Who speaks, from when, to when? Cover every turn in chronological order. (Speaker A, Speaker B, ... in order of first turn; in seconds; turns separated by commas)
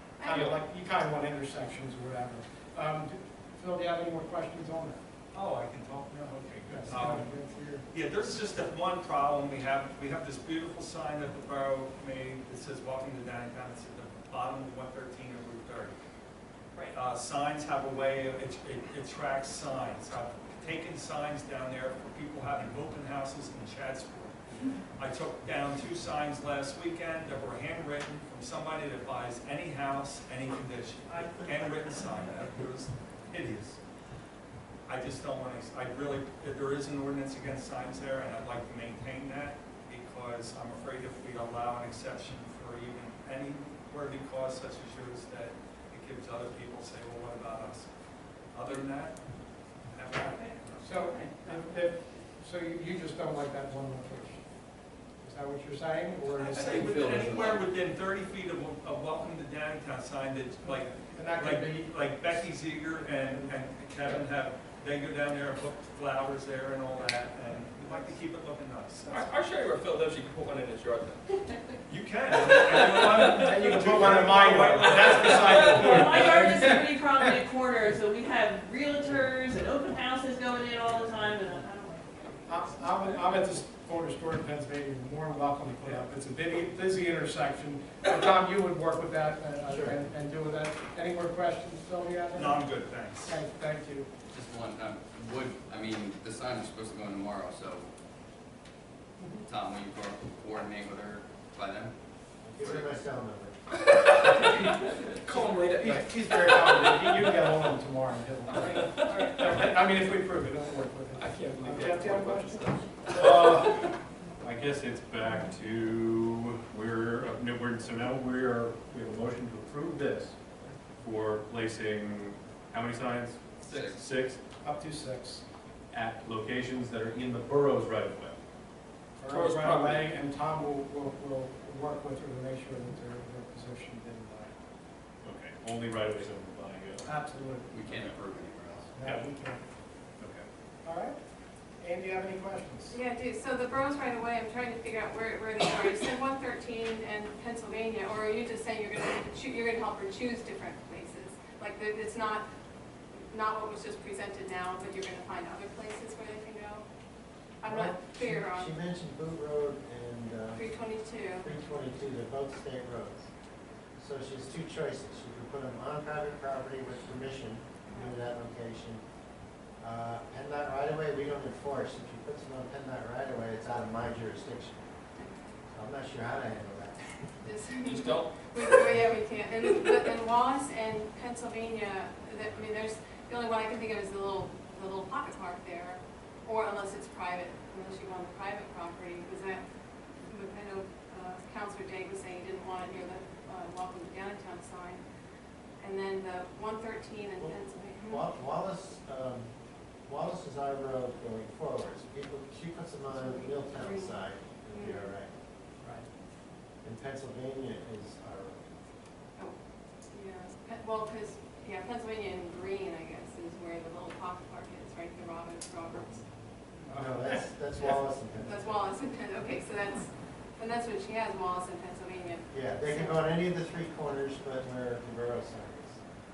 Speaker A: 0.2-0.5, Speaker B: 0.2-5.0, Speaker C: 0.3-0.6, Speaker D: 5.3-7.3, Speaker B: 6.7-7.8, Speaker D: 7.9-15.9, Speaker D: 16.9-33.8, Speaker D: 34.9-47.9, Speaker D: 48.5-49.3, Speaker D: 49.9-50.9, Speaker E: 50.2-51.8, Speaker B: 50.8-54.5, Speaker B: 55.2-57.1, Speaker D: 56.3-69.3, Speaker F: 57.0-57.6, Speaker B: 60.6-61.9, Speaker B: 63.2-63.5, Speaker B: 67.9-68.1, Speaker G: 69.1-71.2, Speaker D: 71.9-76.1, Speaker B: 73.0-77.3, Speaker G: 73.2-73.6, Speaker G: 75.6-75.9, Speaker E: 75.8-83.1, Speaker B: 82.5-92.6, Speaker H: 89.7-90.0, Speaker D: 92.3-93.4, Speaker B: 93.2-94.1, Speaker F: 94.3-97.9, Speaker B: 99.2-99.5, Speaker F: 99.5-101.9, Speaker H: 102.4-103.6, Speaker G: 104.2-106.9, Speaker B: 105.6-112.8, Speaker G: 111.2-113.5, Speaker C: 113.1-120.4, Speaker C: 121.0-124.4, Speaker G: 123.7-124.0, Speaker B: 124.6-125.4, Speaker C: 125.9-128.3, Speaker B: 129.2-134.5, Speaker G: 129.3-130.1, Speaker C: 135.2-137.1, Speaker B: 137.0-138.0, Speaker F: 137.7-138.9, Speaker B: 139.0-139.6, Speaker C: 140.2-140.4, Speaker B: 140.8-141.2, Speaker B: 141.8-143.0, Speaker A: 142.9-152.4, Speaker A: 153.1-156.8, Speaker A: 157.6-158.8, Speaker H: 157.7-160.7, Speaker A: 160.5-161.5, Speaker H: 161.4-163.3, Speaker H: 164.0-169.0, Speaker A: 167.9-168.2, Speaker H: 169.8-174.8, Speaker A: 175.2-175.6, Speaker H: 175.7-177.4, Speaker A: 177.4-189.6, Speaker G: 177.9-178.3, Speaker A: 190.2-195.0, Speaker A: 195.8-198.3, Speaker H: 197.4-199.5, Speaker H: 200.1-205.3, Speaker A: 203.1-205.2, Speaker B: 205.8-206.1, Speaker H: 206.8-208.6, Speaker A: 210.1-216.2, Speaker H: 216.9-218.8, Speaker A: 218.4-223.2, Speaker H: 222.5-226.0